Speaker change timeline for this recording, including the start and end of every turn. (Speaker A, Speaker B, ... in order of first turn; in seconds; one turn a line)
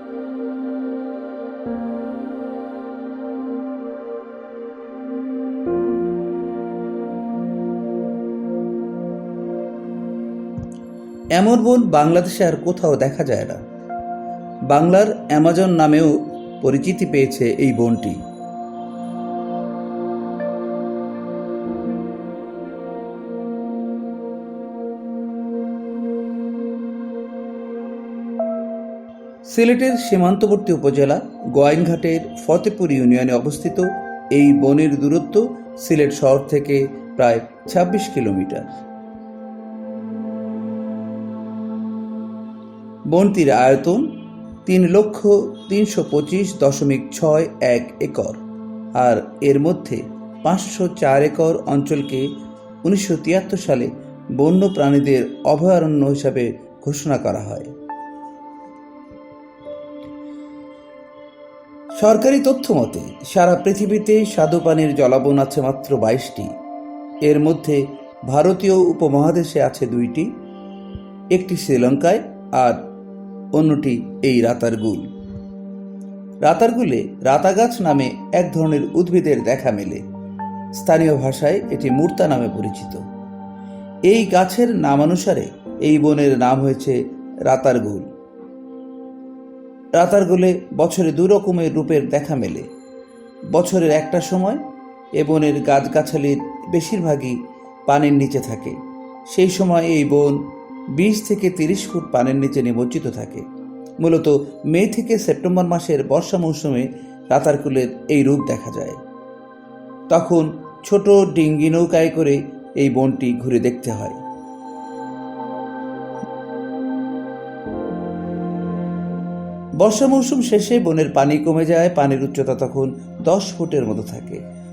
Speaker A: 11.3-13.6
Speaker A: 14.7-18.2
Speaker A: 29.5-38.8
Speaker A: 43.1-48.4
Speaker A: 49.0-57.7
Speaker A: 62.0-66.5
Speaker A: 67.2-70.3
Speaker A: 71.3-72.8
Speaker A: 73.5-75.1
Speaker A: 76.4-80.0
Speaker A: 80.7-83.0
Speaker A: 84.1-88.1
Speaker A: 90.0-92.7
Speaker A: 93.5-94.6
Speaker A: 95.2-103.5
Speaker A: 104.0-109.0
Speaker A: 110.1-114.2
Speaker A: 119.8-124.4